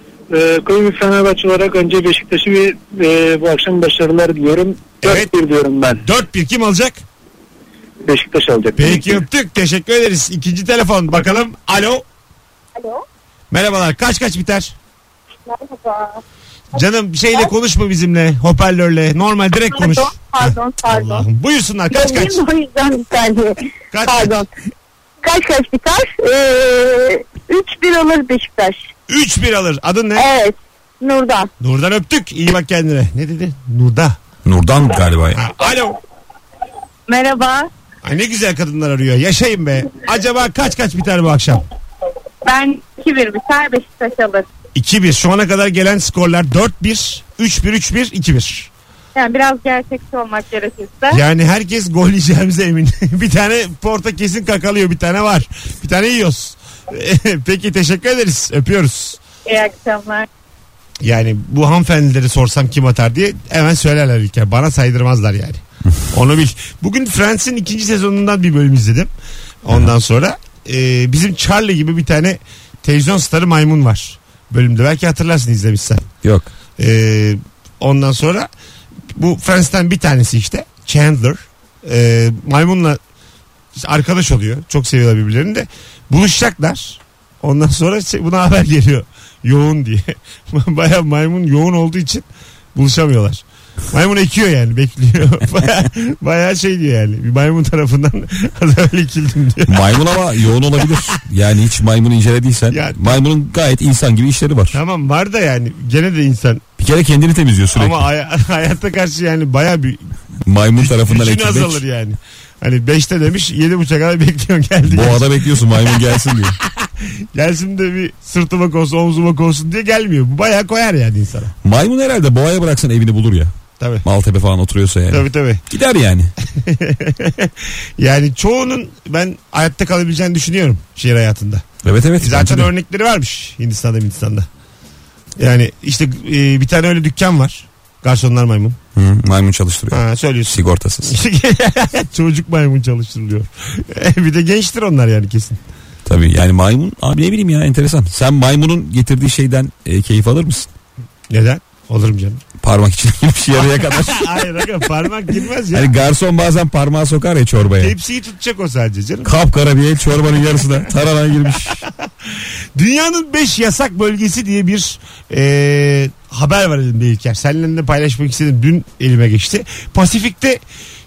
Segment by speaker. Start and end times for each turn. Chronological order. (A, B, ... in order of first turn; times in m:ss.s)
0:00.3-0:06.0 A
0:05.0-0:05.3 B
0:06.0-0:07.0 B
0:08.1-0:09.2 A
0:08.8-0:12.0 B
0:13.5-0:14.8 B
0:15.5-0:16.0 C
0:16.7-0:22.4 B
0:19.9-0:21.2 C
0:21.9-0:23.5 C
0:23.9-0:24.4 B
0:24.1-0:24.5 C
0:25.2-0:28.8 C
0:29.1-0:30.3 B
0:30.2-0:31.5 C
0:31.6-0:34.2 B
0:34.4-0:35.4 D
0:35.3-0:36.0 B
0:37.1-0:37.7 E
0:38.0-0:41.6 B
0:42.5-0:44.5 E
0:44.8-0:48.7 B
0:49.2-0:51.2 E
0:51.1-0:59.2 B
0:59.5-1:00.2 E
1:01.0-1:09.1 B
1:09.6-1:16.1 B
1:16.2-1:16.5 D
1:16.8-1:18.5 B
1:19.1-1:23.0 B
1:23.8-1:40.1 B
1:39.7-1:44.8 D
1:42.7-1:43.2 B
1:44.7-1:46.6 B
1:46.8-1:48.1 D
1:47.7-1:50.1 B
1:50.4-1:51.8 D
1:50.8-1:56.0 B
1:54.9-1:56.6 D
1:56.6-2:01.5 B
2:01.6-2:03.5 D
2:03.8-2:04.0 B
2:04.0-2:06.3 D
2:05.1-2:05.6 B
2:06.5-2:11.6 B
2:11.8-2:12.7 D
2:12.2-2:14.5 B
2:15.4-2:18.8 B
2:18.9-2:21.2 D
2:19.9-2:25.6 B
2:26.1-2:30.7 D
2:31.3-2:32.4 B
2:32.6-2:34.4 D
2:33.5-2:35.9 B
2:35.7-2:37.9 D
2:37.8-2:39.3 B
2:39.2-2:41.8 D
2:42.8-2:50.6 B